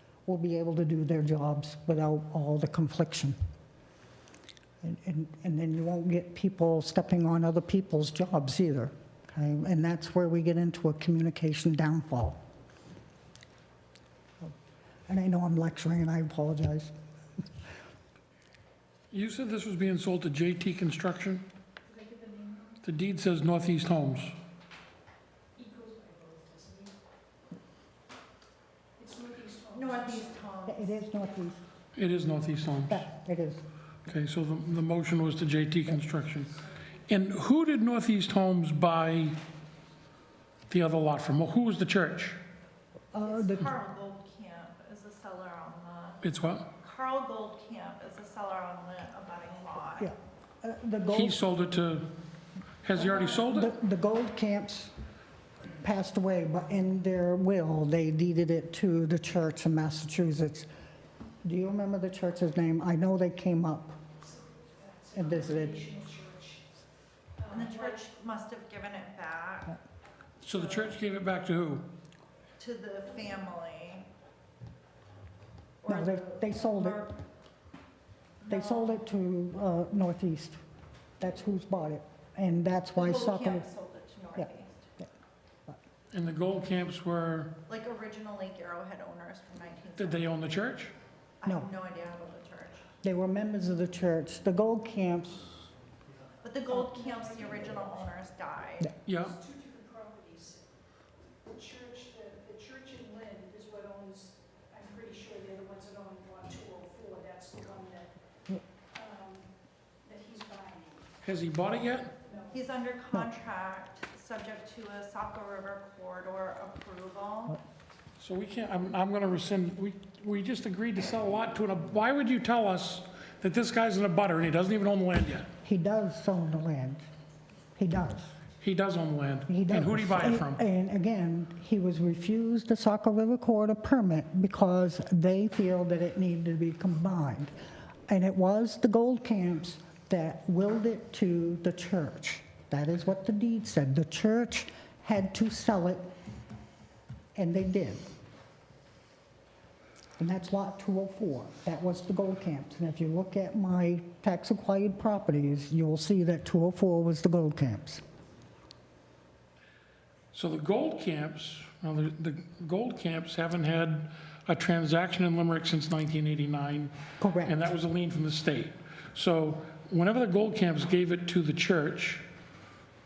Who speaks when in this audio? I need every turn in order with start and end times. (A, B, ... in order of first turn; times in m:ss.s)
0:00.2-0:03.4 A
0:04.8-0:12.4 A
0:15.1-0:16.9 A
0:19.1-0:21.4 B
0:21.9-0:22.8 C
0:22.8-0:24.3 B
0:25.6-0:26.9 C
0:29.0-0:30.5 C
0:29.7-0:31.0 D
0:30.6-0:31.6 A
0:31.9-0:33.1 B
0:32.9-0:33.6 A
0:34.0-0:39.4 B
0:40.7-0:42.4 B
0:43.1-0:43.7 A
0:43.2-0:46.2 D
0:46.2-0:46.7 B
0:46.8-0:50.1 D
0:50.0-0:51.4 A
0:51.1-0:52.1 B
0:52.8-0:53.7 B
0:53.0-0:54.9 A
0:55.7-1:00.7 A
1:01.4-1:04.0 A
1:04.2-1:06.6 C
1:05.1-1:05.9 A
1:07.4-1:08.1 C
1:07.5-1:09.8 D
1:10.4-1:11.9 B
1:10.5-1:11.0 D
1:12.6-1:14.1 D
1:15.8-1:17.2 D
1:15.9-1:17.0 A
1:18.4-1:19.0 D
1:18.5-1:20.6 A
1:21.2-1:23.7 A
1:22.9-1:24.9 D
1:26.1-1:27.6 B
1:27.7-1:30.6 D
1:30.0-1:30.9 B
1:31.4-1:32.8 D
1:33.0-1:35.7 A
1:36.4-1:38.9 D
1:36.7-1:38.0 C
1:39.0-1:39.4 B
1:39.2-1:40.7 C
1:41.5-1:48.1 C
1:48.9-1:49.5 C
1:50.0-1:51.1 C
1:51.2-1:52.1 B
1:52.2-1:52.6 C
1:52.5-1:57.6 D
1:58.2-2:05.5 B
2:05.6-2:07.0 A
2:07.8-2:08.3 A
2:08.6-2:10.6 B
2:09.5-2:17.5 A
2:18.1-2:26.1 A
2:27.4-2:28.1 A
2:30.2-2:38.0 A
2:40.3-2:52.2 B
2:47.2-2:47.6 A